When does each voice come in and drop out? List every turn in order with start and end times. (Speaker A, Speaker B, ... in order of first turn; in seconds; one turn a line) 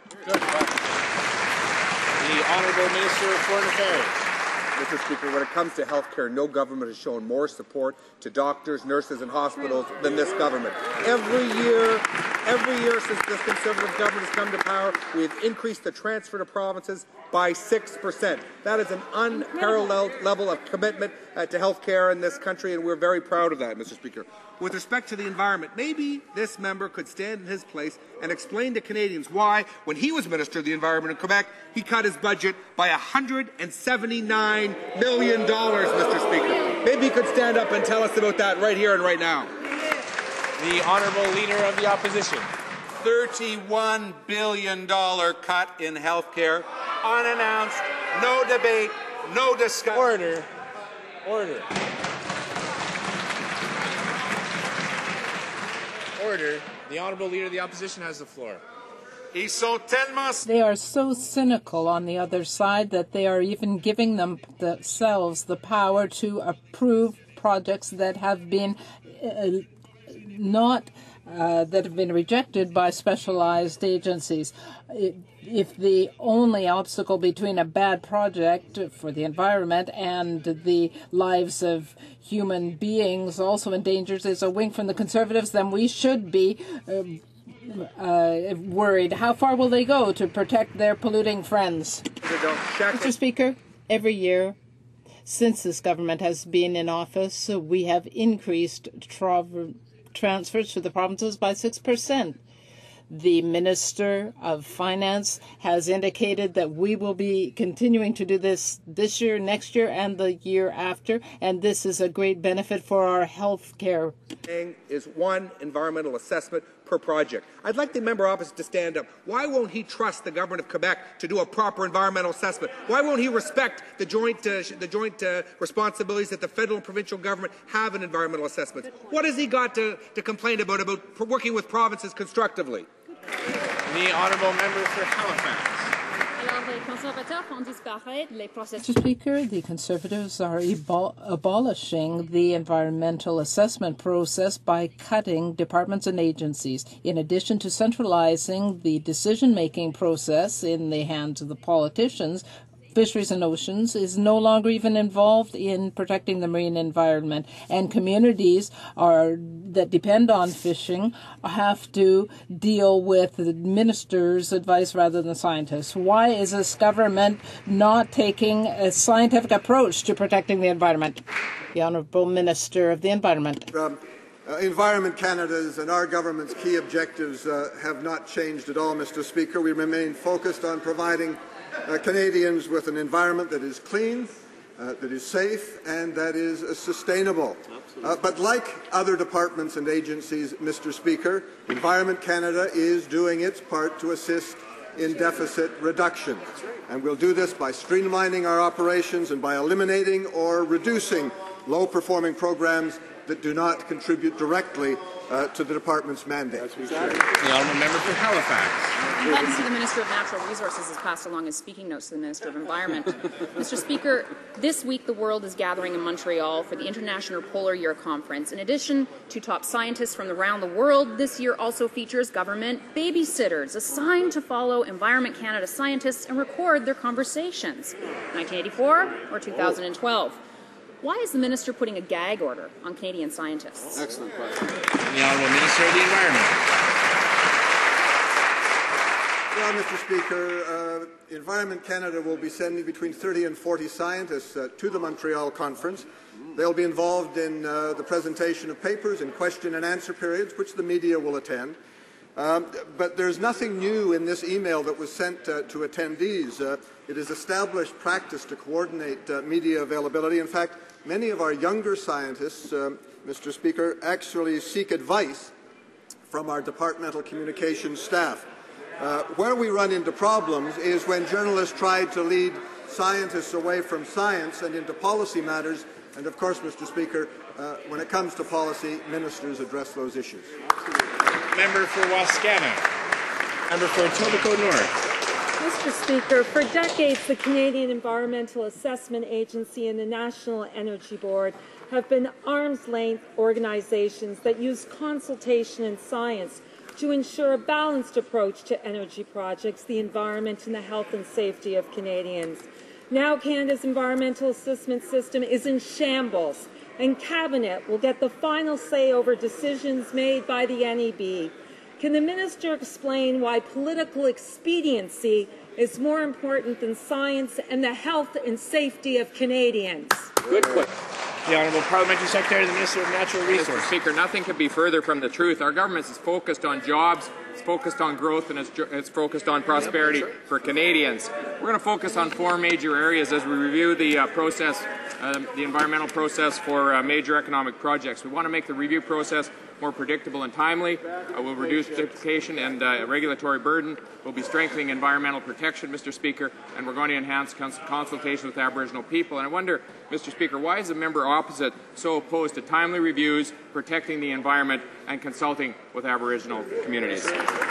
Speaker A: 4.8-39.5
Speaker B: 41.4-42.4
Speaker C: 43.0-50.2
Speaker B: 56.6-58.5
Speaker C: 59.3-60.4
Speaker D: 60.4-92.0
Speaker A: 92.2-93.1
Speaker D: 92.9-94.5
Speaker D: 95.2-102.4
Speaker D: 103.1-114.1
Speaker A: 114.4-132.9
Speaker B: 134.8-135.7
Speaker E: 136.4-138.7
Speaker D: 138.8-171.2
Speaker D: 171.7-173.7
Speaker F: 173.7-207.2
Speaker B: 207.5-208.3
Speaker E: 209.2-230.4
Speaker E: 231.0-234.0
Speaker F: 239.5-251.8
Speaker F: 252.3-265.5
Speaker F: 266.3-268.4
Speaker F: 269.0-280.5
Speaker B: 281.6-282.8
Speaker B: 283.7-284.9
Speaker G: 285.6-320.3
Speaker H: 323.4-357.4